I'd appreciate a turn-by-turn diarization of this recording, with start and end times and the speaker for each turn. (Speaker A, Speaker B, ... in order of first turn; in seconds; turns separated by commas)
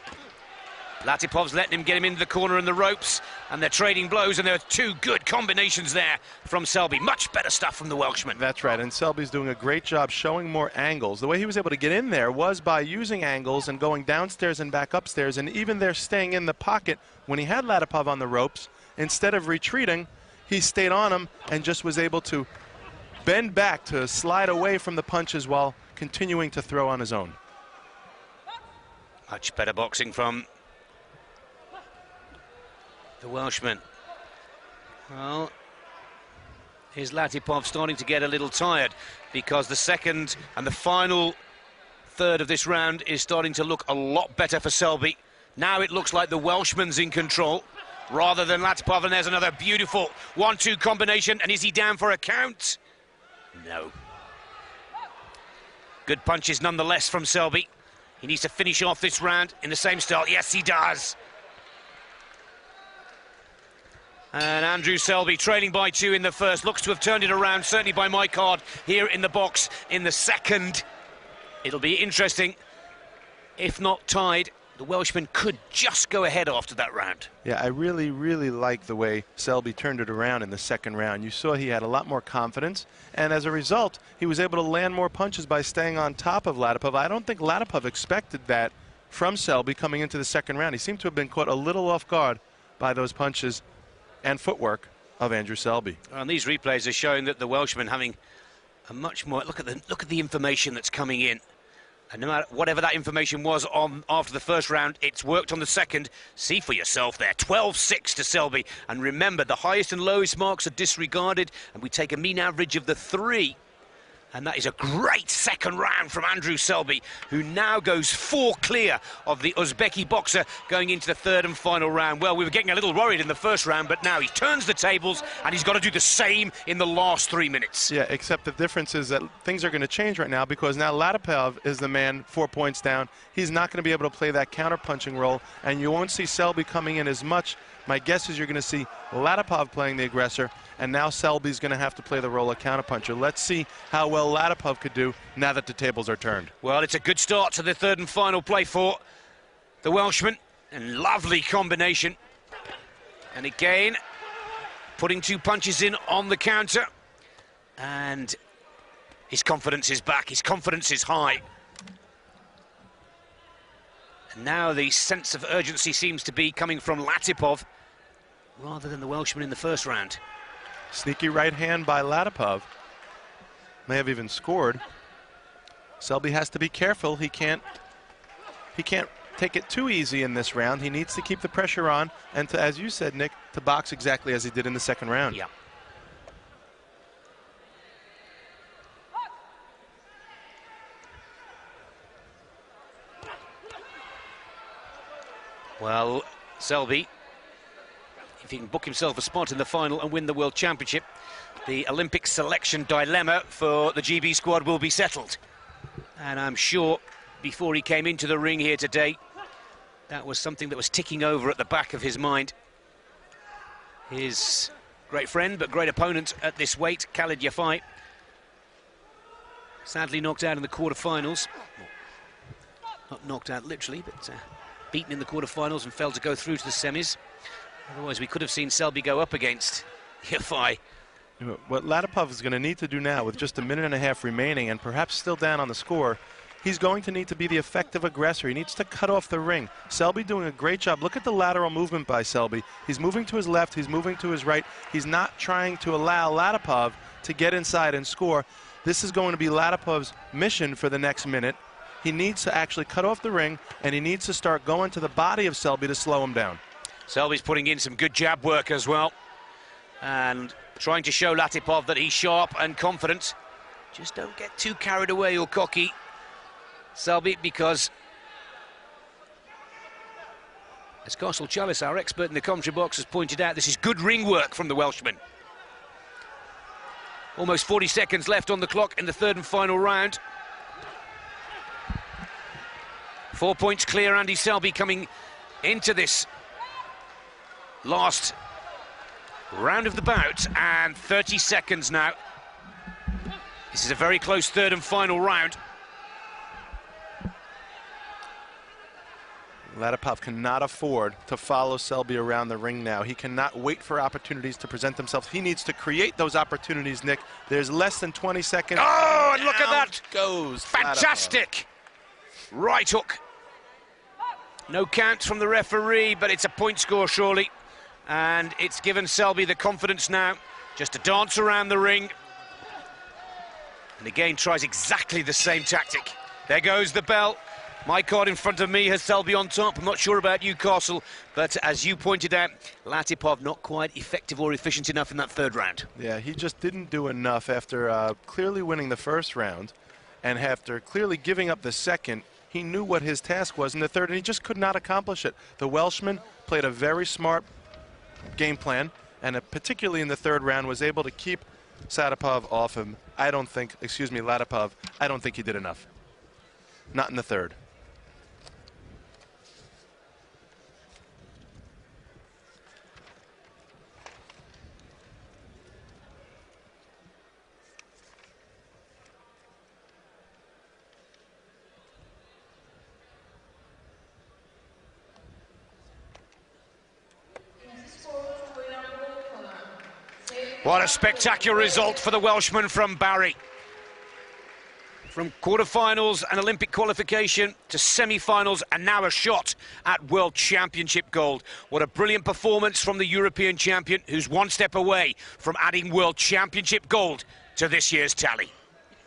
Speaker A: 1.0-8.4, Speaker B: 8.3-22.5, Speaker B: 23.2-27.4, Speaker A: 29.3-30.5, Speaker A: 33.2-33.8, Speaker A: 35.1-35.5, Speaker A: 37.0-41.4, Speaker A: 42.1-52.8, Speaker A: 53.5-53.9, Speaker A: 56.1-57.7, Speaker A: 58.2-61.2, Speaker A: 64.3-70.8, Speaker A: 71.6-72.6, Speaker A: 73.6-77.3, Speaker B: 77.4-93.6, Speaker B: 94.2-96.0, Speaker A: 96.1-98.2, Speaker A: 98.9-101.4, Speaker A: 102.1-113.6, Speaker A: 114.3-127.9, Speaker B: 127.9-146.5, Speaker A: 146.6-149.0, Speaker A: 149.8-152.2, Speaker A: 153.3-154.0, Speaker A: 155.0-156.9, Speaker A: 157.8-158.4, Speaker A: 159.3-161.4, Speaker A: 164.3-167.6, Speaker A: 168.6-170.2, Speaker B: 170.9-172.7, Speaker B: 173.9-174.8, Speaker B: 176.0-177.6, Speaker B: 178.8-185.4, Speaker A: 195.8-197.1, Speaker A: 198.4-201.1, Speaker A: 201.6-205.4, Speaker A: 206.2-209.2, Speaker A: 210.1-212.5, Speaker A: 214.1-217.8, Speaker A: 219.8-221.9, Speaker A: 223.1-227.2, Speaker A: 227.9-230.8, Speaker B: 231.4-256.6, Speaker A: 257.1-259.1, Speaker A: 260.0-263.4, Speaker A: 263.9-266.0, Speaker A: 266.9-267.9, Speaker A: 271.1-275.2, Speaker A: 277.4-280.2, Speaker A: 283.3-285.1, Speaker A: 285.6-286.3, Speaker A: 287.8-288.4, Speaker A: 289.5-292.1, Speaker A: 293.7-295.6, Speaker B: 299.7-311.4, Speaker A: 308.8-310.0, Speaker A: 310.7-311.7, Speaker A: 312.5-313.2, Speaker A: 314.7-317.5, Speaker A: 318.1-322.1, Speaker A: 324.0-335.9, Speaker B: 336.0-347.5, Speaker B: 348.4-355.9, Speaker B: 356.9-357.6, Speaker A: 380.6-383.4, Speaker A: 385.1-398.5